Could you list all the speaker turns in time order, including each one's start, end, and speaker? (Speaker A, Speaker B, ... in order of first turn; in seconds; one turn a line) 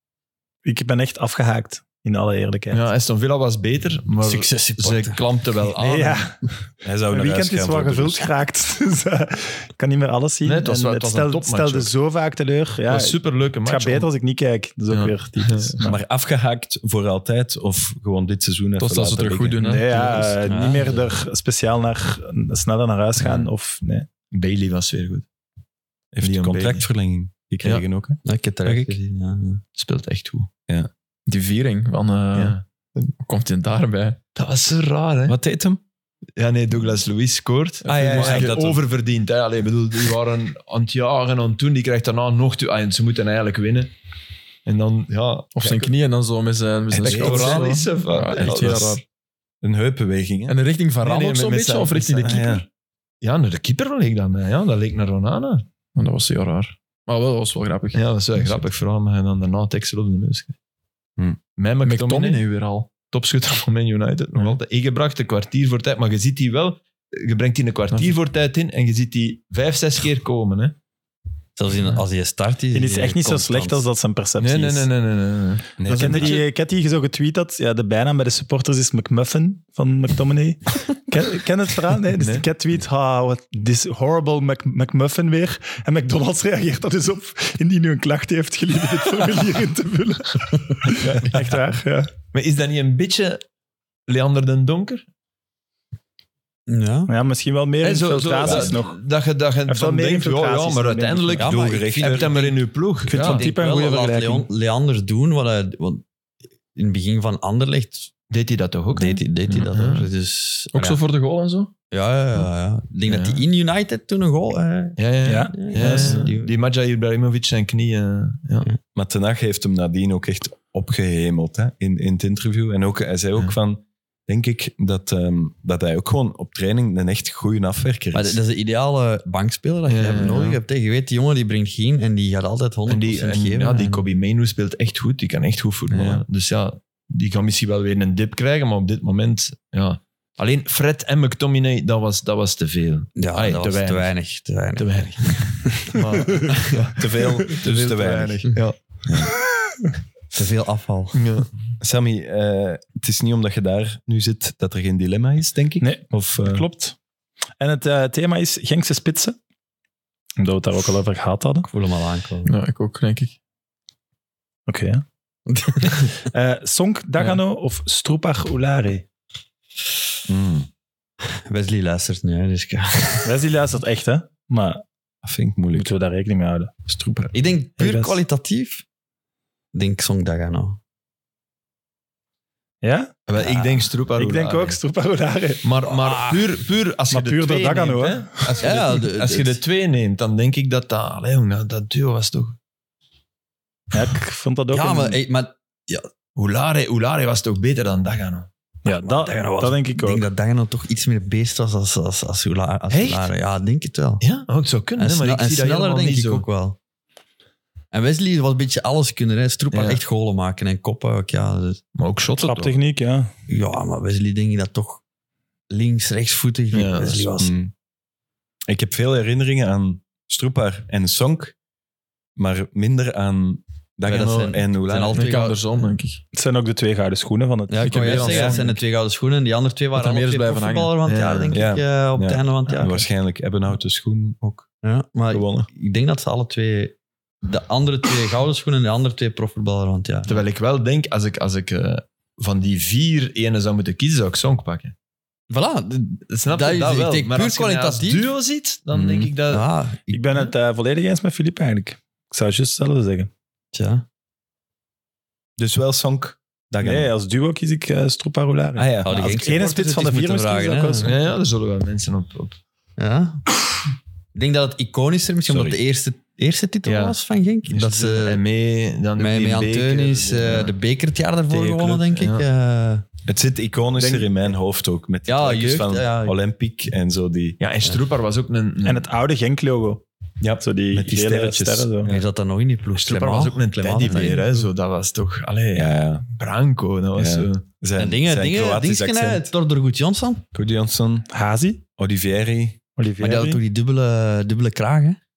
Speaker A: 0.7-2.8
Speaker B: 2.7-6.3
Speaker C: 4.2-5.2
Speaker A: 5.8-6.5
Speaker D: 6.8-8.3
Speaker A: 7.1-16.0
Speaker B: 10.4-11.9
Speaker B: 12.9-14.1
Speaker B: 14.9-15.8
Speaker D: 15.8-19.7
Speaker E: 18.8-20.4
Speaker A: 19.6-24.1
Speaker C: 20.5-21.1
Speaker B: 24.3-25.2
Speaker D: 26.1-28.9
Speaker B: 26.2-26.9
Speaker C: 28.2-29.6
Speaker B: 29.8-30.5
Speaker E: 31.3-32.6
Speaker B: 32.4-33.1
Speaker E: 33.2-34.2
Speaker B: 34.4-35.4
Speaker D: 35.3-35.8
Speaker B: 36.4-43.9
Speaker E: 37.9-38.5
Speaker D: 37.9-38.8
Speaker B: 44.7-45.9
Speaker E: 45.5-49.0
Speaker D: 46.9-47.7
Speaker B: 47.0-49.0
Speaker D: 48.5-49.0
Speaker D: 49.6-50.6
Speaker E: 50.5-52.6
Speaker B: 51.0-52.6
Speaker D: 52.2-52.6
Speaker B: 53.2-55.6
Speaker E: 56.0-58.5
Speaker B: 57.9-60.5
Speaker B: 61.6-62.4
Speaker E: 61.9-62.9
Speaker B: 63.1-70.8
Speaker C: 71.6-73.8
Speaker A: 72.7-74.9
Speaker B: 74.4-76.5
Speaker D: 75.8-76.4
Speaker A: 75.9-92.1
Speaker B: 82.2-82.5
Speaker B: 91.0-91.3
Speaker B: 92.3-93.4
Speaker B: 94.1-95.0
Speaker C: 96.7-97.1
Speaker A: 97.1-99.0
Speaker B: 97.8-103.5
Speaker D: 98.4-98.8
Speaker A: 99.7-101.5
Speaker C: 101.4-106.0
Speaker D: 101.4-102.4
Speaker A: 103.1-104.5
Speaker C: 106.8-108.1
Speaker B: 108.3-110.1
Speaker C: 108.9-111.0
Speaker E: 110.7-111.7
Speaker C: 111.9-116.5
Speaker B: 113.1-113.4
Speaker B: 115.0-118.7
Speaker A: 115.2-116.2
Speaker D: 119.0-128.4
Speaker C: 128.1-134.1
Speaker B: 129.9-130.6
Speaker B: 132.9-144.1
Speaker D: 135.9-136.2
Speaker C: 143.2-145.7
Speaker B: 144.8-148.8
Speaker D: 147.0-149.3
Speaker C: 150.3-151.2
Speaker B: 151.1-151.5
Speaker D: 151.8-156.7
Speaker A: 155.8-156.9
Speaker A: 157.6-159.4
Speaker A: 160.4-161.7
Speaker C: 161.7-162.5
Speaker E: 162.5-163.3
Speaker A: 164.7-165.0
Speaker C: 165.5-166.1
Speaker A: 166.3-169.1
Speaker D: 170.3-170.7
Speaker C: 171.5-173.3
Speaker A: 173.2-174.8
Speaker D: 175.2-175.9
Speaker A: 175.7-176.8
Speaker D: 176.9-177.3
Speaker C: 177.3-178.8
Speaker A: 177.8-178.2
Speaker C: 179.7-180.8
Speaker A: 182.8-183.2
Speaker B: 183.3-184.8
Speaker C: 183.4-183.8
Speaker A: 184.2-185.7
Speaker B: 185.6-192.6
Speaker C: 185.9-186.4
Speaker A: 187.1-188.6
Speaker C: 188.6-189.6
Speaker A: 193.9-195.2
Speaker C: 194.7-196.1
Speaker B: 196.4-198.5
Speaker A: 198.8-200.2
Speaker C: 198.9-204.2
Speaker B: 202.9-203.3
Speaker B: 204.2-206.4
Speaker C: 205.0-206.8
Speaker C: 207.9-211.8
Speaker B: 209.7-210.0
Speaker B: 211.9-212.8
Speaker A: 212.4-213.3
Speaker C: 213.5-215.0
Speaker C: 215.7-217.5
Speaker B: 216.7-217.3
Speaker D: 217.4-217.7
Speaker D: 218.7-221.6
Speaker D: 222.4-225.2
Speaker C: 224.1-225.8
Speaker E: 225.1-226.2
Speaker A: 226.3-228.4
Speaker C: 227.7-233.1
Speaker E: 227.8-228.7
Speaker D: 228.3-228.6
Speaker E: 229.9-230.9
Speaker B: 231.1-231.6
Speaker D: 231.5-234.7
Speaker C: 234.6-240.4
Speaker D: 235.3-235.7
Speaker B: 240.3-244.9
Speaker C: 245.5-248.3
Speaker B: 246.3-249.7
Speaker D: 248.9-249.3
Speaker C: 249.5-250.5
Speaker A: 250.1-253.3
Speaker C: 253.7-254.1
Speaker D: 255.6-257.1
Speaker A: 256.8-261.1
Speaker D: 258.8-259.5
Speaker C: 259.0-261.1
Speaker B: 261.0-262.6
Speaker C: 263.0-263.5
Speaker C: 264.3-268.4
Speaker D: 265.5-265.8
Speaker B: 266.9-270.7
Speaker C: 269.2-273.1
Speaker D: 271.5-272.0
Speaker B: 272.2-272.4
Speaker D: 273.3-277.6
Speaker C: 275.3-276.4
Speaker B: 277.6-279.1
Speaker A: 278.9-280.1
Speaker D: 280.4-282.2
Speaker A: 280.6-282.1
Speaker C: 282.1-284.6
Speaker B: 283.0-287.6
Speaker D: 285.8-286.2
Speaker D: 287.2-289.5
Speaker C: 288.0-290.4
Speaker D: 290.5-291.3
Speaker A: 291.3-291.8
Speaker D: 292.0-292.8
Speaker A: 293.0-293.6
Speaker C: 293.2-295.2